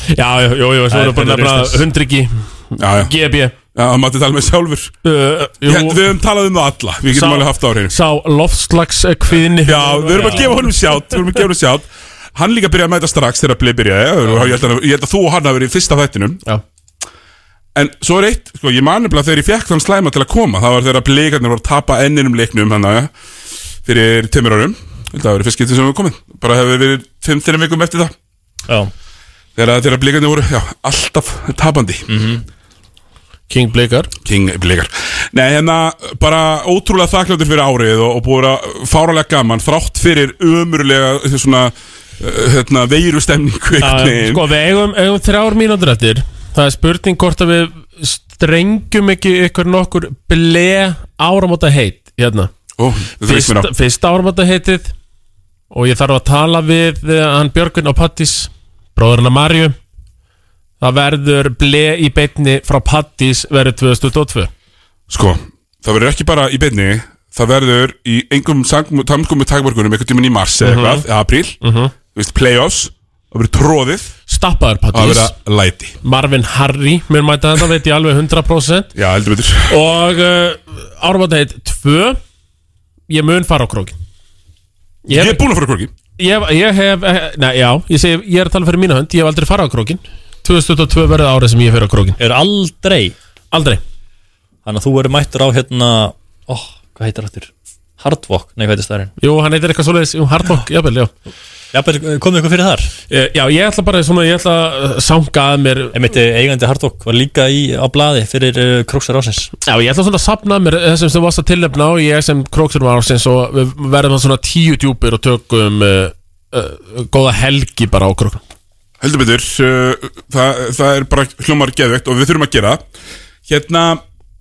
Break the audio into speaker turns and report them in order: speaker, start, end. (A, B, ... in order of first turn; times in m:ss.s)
0:00.1-0:03.5 A
0:00.9-0:01.8 B
0:02.8-0:03.1 C
0:03.8-0:04.9 C
0:05.0-0:06.0 A
0:05.6-0:07.9 C
0:07.1-0:10.7 A
0:09.6-0:16.4 C
0:17.8-0:23.1 C
0:23.8-0:28.1 C
0:29.6-0:32.1 C
0:32.1-0:32.4 B
0:33.5-0:34.1 A
0:34.2-0:44.4 C
0:43.8-0:52.5 A
0:52.8-0:53.7 C
0:53.2-0:54.9 A
0:55.7-0:59.8 A
1:00.8-1:04.5 A
1:05.1-1:11.6 C
1:10.6-1:11.0 A
1:11.6-1:11.9 A
1:12.1-1:14.1 C
1:14.3-1:15.3 A
1:14.9-1:16.0 C
1:16.0-1:18.9 A
1:19.0-1:19.8 C
1:19.7-1:22.2 A
1:23.1-1:24.0 A
1:25.1-1:25.4 A
1:25.1-1:25.9 C
1:26.2-1:32.2 A
1:32.2-1:33.2 B
1:33.5-1:33.8 A
1:34.6-1:39.1 B
1:39.2-1:41.1 A
1:41.7-1:42.9 B
1:43.1-1:46.0 A
1:45.9-1:49.5 B
1:49.7-1:58.4 A
1:59.0-2:02.8 C
2:03.5-2:04.0 C